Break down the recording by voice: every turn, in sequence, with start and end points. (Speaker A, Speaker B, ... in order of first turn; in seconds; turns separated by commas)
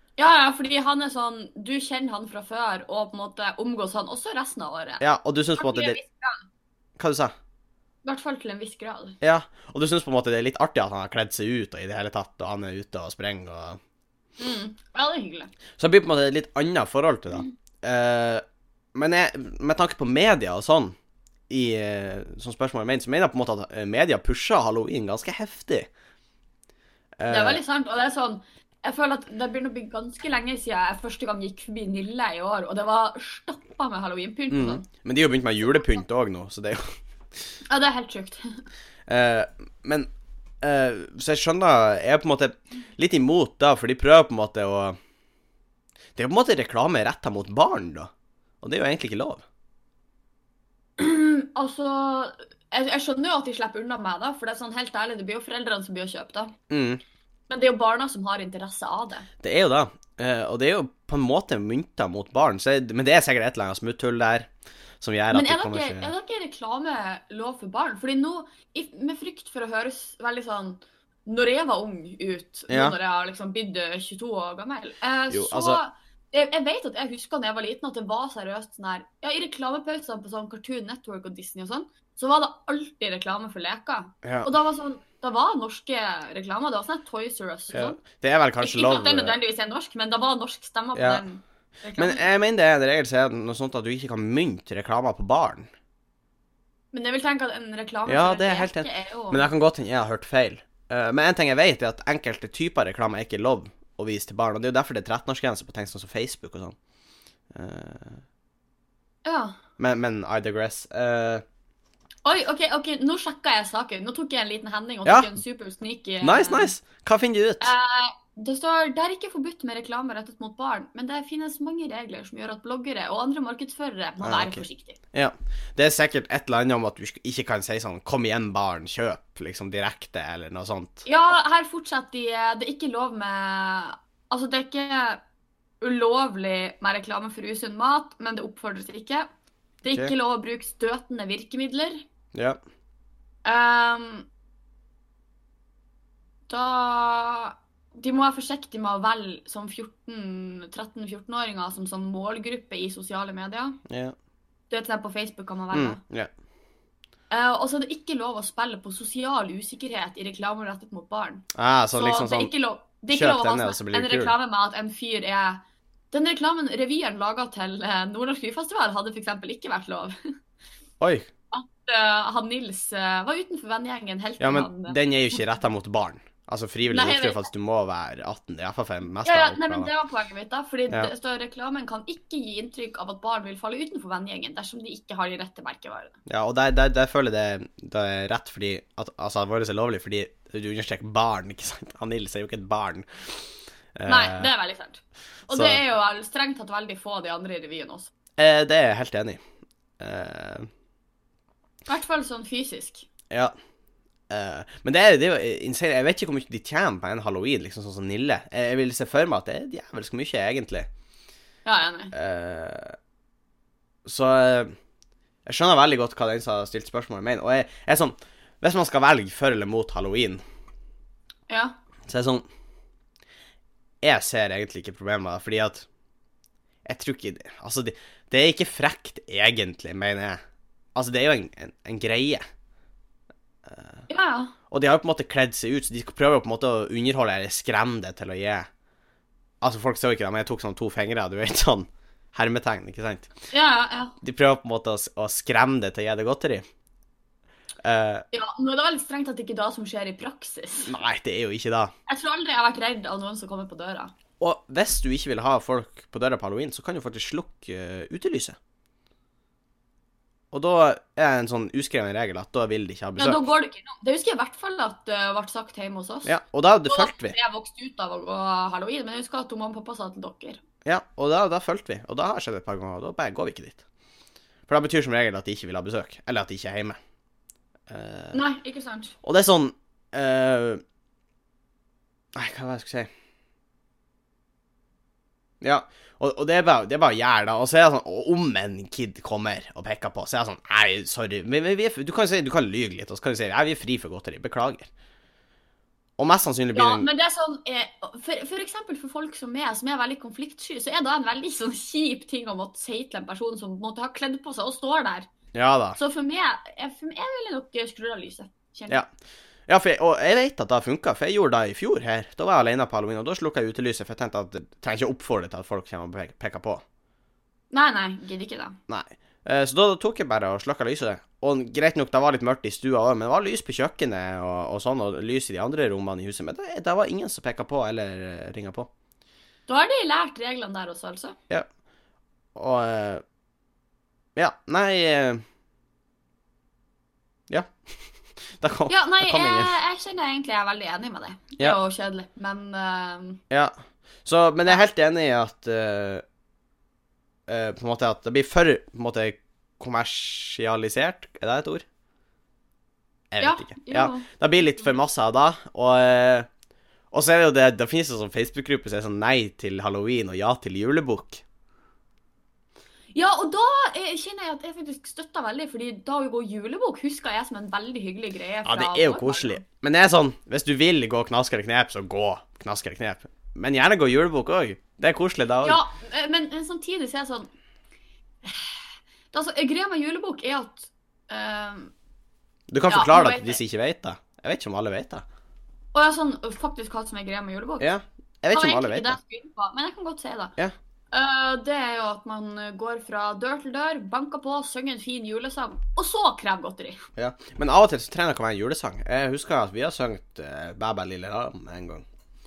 Speaker A: 0.2-5.0, Speaker B: 5.0-6.0, Speaker A: 5.6-6.5, Speaker B: 7.0-7.3, Speaker A: 8.0-9.2, Speaker B: 9.2-13.8, Speaker A: 14.4-15.5, Speaker B: 15.8-18.4, Speaker B: 18.9-20.9, Speaker B: 21.5-25.9, Speaker B: 27.2-27.6, Speaker A: 27.3-34.9, Speaker B: 34.5-36.9, Speaker A: 37.7-38.6, Speaker B: 39.1-40.1, Speaker B: 40.6-45.0, Speaker B: 46.2-48.1, Speaker B: 48.6-49.4, Speaker A: 51.0-56.5, Speaker B: 56.7-57.0, Speaker A: 57.5-59.3, Speaker B: 59.4-66.1, Speaker A: 65.3-88.0, Speaker B: 72.7-73.0, Speaker B: 75.3-75.8, Speaker B: 84.2-84.5, Speaker B: 87.7-89.4, Speaker A: 88.6-92.3, Speaker B: 91.0-91.2, Speaker B: 92.0-95.7, Speaker A: 96.9-99.5, Speaker B: 98.1-106.8, Speaker B: 107.5-108.2, Speaker A: 109.2-109.6, Speaker B: 109.8-111.4, Speaker A: 112.2-116.7, Speaker B: 115.0-115.3, Speaker B: 116.2-117.7, Speaker A: 117.6-125.0, Speaker B: 124.2-131.1, Speaker A: 131.1-135.2, Speaker A: 135.8-139.3, Speaker A: 139.8-142.0, Speaker B: 142.3-142.6, Speaker A: 143.4-144.3, Speaker A: 146.5-153.8, Speaker B: 153.9-154.2, Speaker A: 154.7-156.0, Speaker B: 155.7-156.3, Speaker A: 157.3-170.2, Speaker B: 161.5-162.5, Speaker B: 163.1-164.3, Speaker B: 171.0-171.3, Speaker A: 171.5-175.0, Speaker B: 174.4-179.9, Speaker A: 176.9-177.5, Speaker A: 179.2-186.2, Speaker B: 186.3-193.4, Speaker B: 194.0-194.5, Speaker A: 194.1-198.1, Speaker B: 195.5-195.8, Speaker B: 198.4-199.4, Speaker B: 200.0-200.7, Speaker A: 201.9-203.1, Speaker B: 204.3-210.9, Speaker A: 211.7-212.1, Speaker B: 212.1-213.0, Speaker B: 214.1-214.7, Speaker B: 215.5-220.4, Speaker A: 221.5-221.8, Speaker B: 222.1-222.4, Speaker B: 224.0-225.9, Speaker B: 226.8-230.4, Speaker B: 230.9-232.4, Speaker B: 233.7-234.0, Speaker A: 234.1-234.5, Speaker B: 234.7-238.7, Speaker B: 239.6-243.3, Speaker A: 243.5-244.2, Speaker B: 244.2-246.6, Speaker B: 247.8-248.2, Speaker A: 248.3-250.9, Speaker B: 250.9-251.9, Speaker A: 252.1-254.1, Speaker B: 254.4-258.6, Speaker B: 260.5-263.4, Speaker A: 263.2-266.3, Speaker B: 266.2-267.4, Speaker A: 266.9-270.6, Speaker B: 270.9-273.8, Speaker B: 274.7-277.0, Speaker B: 277.9-278.4, Speaker A: 278.3-279.1, Speaker B: 279.2-280.8, Speaker B: 282.4-283.1, Speaker B: 285.6-294.9, Speaker B: 296.2-297.1, Speaker A: 296.7-305.3, Speaker B: 305.5-306.0, Speaker A: 306.0-309.0, Speaker B: 309.7-316.8, Speaker A: 317.7-318.8, Speaker B: 318.9-328.9, Speaker A: 329.7-331.4, Speaker B: 332.6-333.2, Speaker B: 334.4-335.4, Speaker B: 337.5-337.7, Speaker B: 338.6-339.7, Speaker A: 338.9-343.4, Speaker B: 344.2-346.2, Speaker B: 347.5-351.9, Speaker B: 353.3-356.5, Speaker A: 353.4-354.3, Speaker B: 357.1-361.4, Speaker A: 363.1-369.6, Speaker B: 368.6-375.8, Speaker A: 375.6-377.5, Speaker A: 378.4-381.9, Speaker B: 382.7-385.2, Speaker A: 382.9-383.6, Speaker A: 385.9-387.9, Speaker B: 387.8-389.2, Speaker A: 388.5-390.5, Speaker A: 391.1-397.0, Speaker B: 397.2-402.1